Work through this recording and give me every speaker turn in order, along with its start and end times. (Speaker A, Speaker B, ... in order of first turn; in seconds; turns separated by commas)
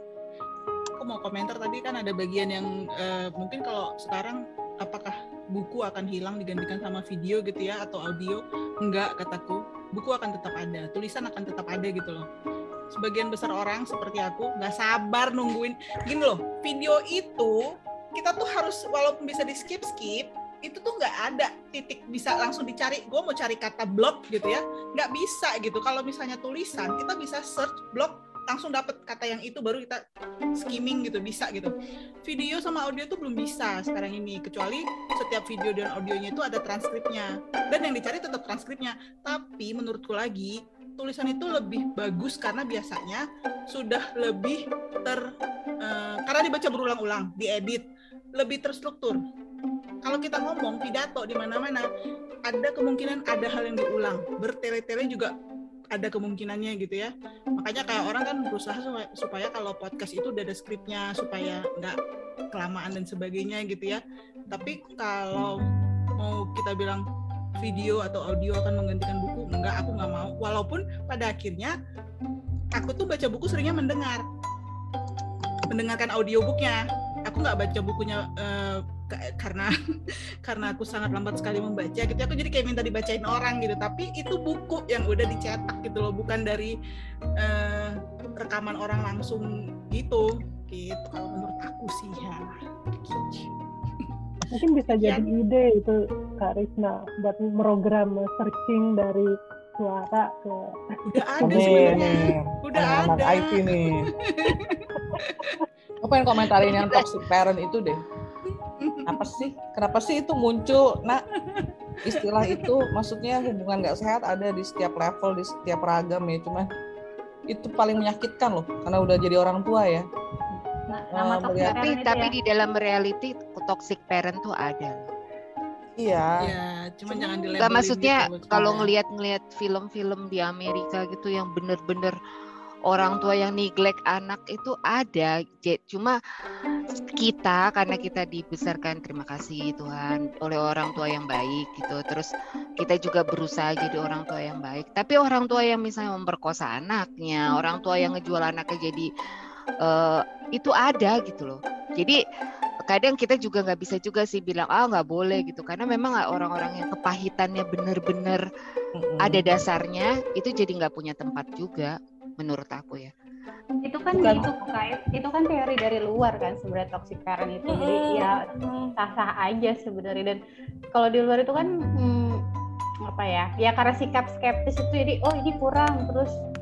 Speaker A: 1.0-12.2, Speaker A: 12.9-17.6, Speaker A: 18.2-30.0, Speaker A: 30.6-31.7, Speaker A: 32.2-45.2, Speaker A: 45.8-47.8, Speaker A: 48.4-49.2, Speaker A: 50.0-51.9, Speaker A: 52.5-55.3, Speaker A: 55.9-62.0, Speaker A: 62.5-65.6, Speaker A: 66.2-67.0, Speaker A: 67.6-71.8, Speaker A: 72.8-74.2, Speaker A: 75.7-79.7, Speaker A: 80.5-86.7, Speaker A: 87.4-94.1, Speaker B: 94.5-102.1, Speaker A: 94.9-95.2, Speaker A: 101.0-105.6, Speaker C: 101.4-104.1, Speaker C: 106.0-108.0, Speaker A: 108.5-109.0, Speaker C: 109.1-111.2, Speaker C: 112.0-116.7, Speaker C: 117.5-120.1, Speaker D: 120.9-122.3, Speaker C: 121.1-121.8, Speaker E: 121.6-125.1, Speaker C: 126.0-126.4, Speaker A: 126.4-128.9, Speaker E: 127.6-132.2, Speaker E: 132.9-136.2, Speaker E: 137.2-142.3, Speaker E: 142.8-149.1, Speaker E: 149.8-152.2, Speaker E: 152.9-158.4, Speaker C: 159.0-159.4, Speaker E: 159.2-163.1, Speaker D: 163.8-168.4, Speaker C: 164.2-164.5, Speaker C: 167.7-168.9, Speaker D: 169.0-170.4, Speaker D: 170.9-172.4, Speaker D: 173.1-176.3